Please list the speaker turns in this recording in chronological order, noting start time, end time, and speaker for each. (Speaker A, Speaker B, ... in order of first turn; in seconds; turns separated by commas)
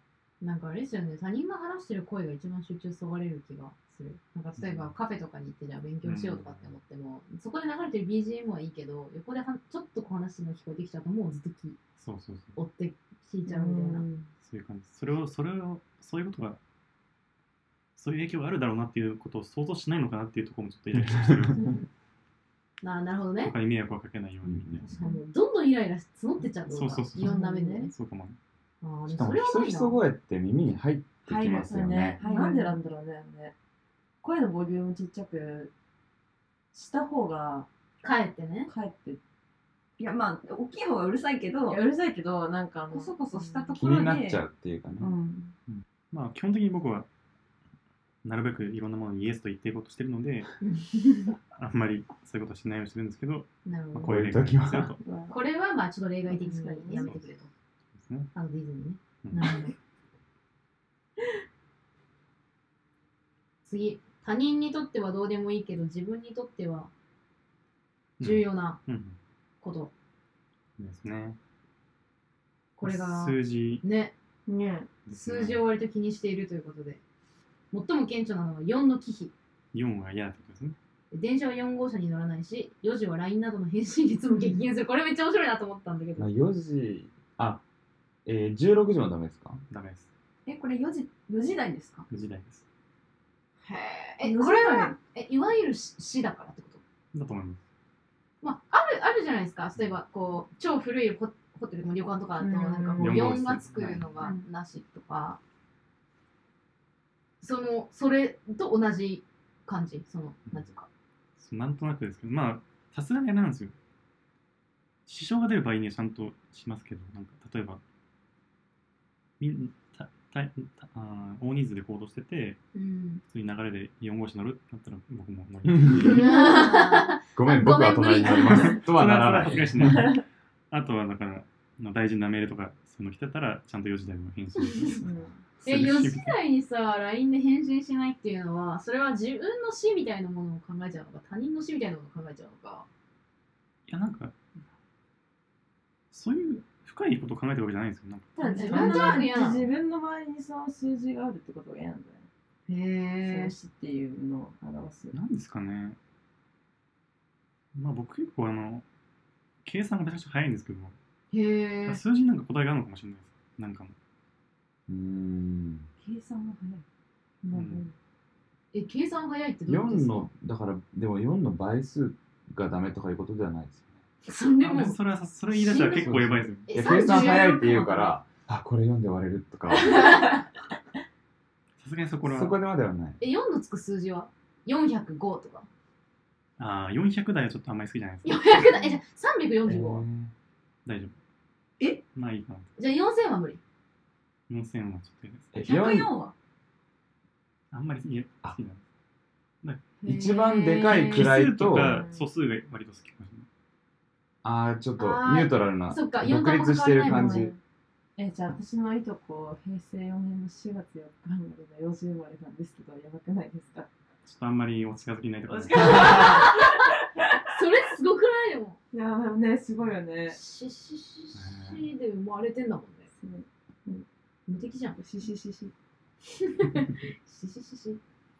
Speaker A: 0.4-11.8, Speaker B: 4.6-4.9, Speaker B: 6.0-6.8, Speaker B: 12.0-12.6, Speaker A: 12.6-14.1, Speaker C: 13.4-14.3, Speaker B: 14.4-16.6, Speaker B: 17.9-21.7, Speaker D: 20.9-21.5, Speaker A: 22.8-23.5, Speaker B: 23.4-25.0, Speaker D: 24.4-24.8, Speaker C: 24.9-25.2, Speaker A: 25.0-27.9, Speaker B: 26.7-28.4, Speaker C: 27.2-27.9, Speaker A: 28.8-30.0, Speaker D: 29.1-32.2, Speaker C: 31.3-33.5, Speaker E: 32.2-32.8, Speaker A: 32.2-32.6, Speaker C: 34.2-35.7, Speaker C: 36.7-37.7, Speaker A: 38.0-38.7, Speaker C: 38.7-39.2, Speaker E: 40.0-41.8, Speaker C: 41.6-43.9, Speaker E: 42.9-44.4, Speaker D: 43.8-45.1, Speaker E: 45.0-45.5, Speaker C: 45.0-45.5, Speaker B: 45.7-47.1, Speaker B: 48.2-50.5, Speaker A: 50.6-51.3, Speaker B: 51.5-55.0, Speaker A: 53.6-54.2, Speaker D: 54.0-54.9, Speaker C: 55.0-55.4, Speaker A: 55.3-57.5, Speaker C: 56.3-57.1, Speaker B: 57.9-58.3, Speaker A: 58.3-59.7, Speaker B: 59.2-59.5, Speaker A: 63.6-66.9, Speaker B: 68.2-69.2, Speaker A: 68.2-68.8, Speaker A: 69.6-69.9, Speaker B: 70.8-71.4, Speaker A: 72.8-74.1, Speaker B: 72.8-73.8, Speaker C: 74.5-74.9, Speaker B: 75.0-75.7, Speaker A: 75.1-77.0, Speaker A: 77.7-79.3, Speaker B: 79.7-80.8, Speaker A: 81.1-86.3, Speaker C: 84.3-84.6, Speaker D: 86.2-87.6, Speaker D: 88.2-89.6, Speaker B: 89.7-90.1, Speaker E: 90.5-92.1, Speaker B: 92.1-92.6, Speaker A: 93.6-96.8, Speaker C: 94.2-94.9, Speaker B: 97.1-97.6, Speaker A: 98.4-105.4, Speaker C: 102.4-103.4, Speaker B: 103.0-104.1, Speaker C: 104.2-104.4, Speaker A: 107.4-110.9, Speaker B: 111.4-113.7, Speaker B: 115.1-117.8, Speaker B: 119.4-122.6, Speaker A: 122.7-123.2, Speaker B: 123.3-126.3, Speaker D: 125.6-126.3, Speaker A: 126.0-128.8, Speaker C: 126.2-127.1, Speaker D: 127.3-130.1, Speaker B: 128.3-136.4, Speaker C: 135.0-135.4, Speaker A: 135.6-142.9, Speaker B: 143.9-144.3, Speaker B: 146.1-149.1, Speaker C: 148.3-152.3, Speaker A: 148.4-149.6, Speaker A: 152.7-153.5, Speaker C: 153.2-155.2, Speaker B: 155.1-156.0, Speaker B: 157.7-158.8, Speaker B: 159.6-160.9, Speaker A: 161.3-162.0, Speaker B: 161.8-163.9, Speaker D: 164.9-165.9, Speaker C: 166.0-166.8, Speaker A: 167.4-167.9, Speaker B: 167.5-167.8, Speaker A: 168.7-170.3, Speaker D: 169.7-173.9, Speaker A: 174.2-175.0, Speaker B: 174.6-176.7, Speaker A: 175.5-178.2, Speaker D: 175.6-180.1, Speaker C: 177.0-177.3, Speaker A: 179.9-180.2, Speaker B: 181.8-182.6, Speaker D: 182.2-183.2, Speaker A: 183.2-185.7, Speaker B: 186.6-188.7, Speaker A: 188.2-190.1, Speaker D: 189.6-190.3, Speaker B: 190.8-191.2, Speaker B: 192.1-192.7, Speaker A: 192.8-193.6, Speaker B: 194.5-195.5, Speaker D: 195.5-196.1, Speaker E: 195.6-196.3, Speaker B: 197.7-198.8, Speaker A: 200.0-201.3, Speaker D: 200.0-202.0, Speaker B: 200.9-203.5, Speaker C: 201.7-202.2, Speaker D: 204.4-207.5, Speaker A: 205.0-207.5, Speaker C: 207.1-207.6, Speaker C: 208.2-213.9, Speaker B: 214.2-216.5, Speaker C: 215.5-217.4, Speaker A: 216.0-216.4, Speaker A: 217.5-218.8, Speaker C: 218.9-220.4, Speaker A: 220.3-223.1, Speaker B: 221.3-221.8, Speaker C: 223.2-224.0, Speaker A: 224.5-225.0, Speaker C: 225.0-225.7, Speaker A: 226.4-228.0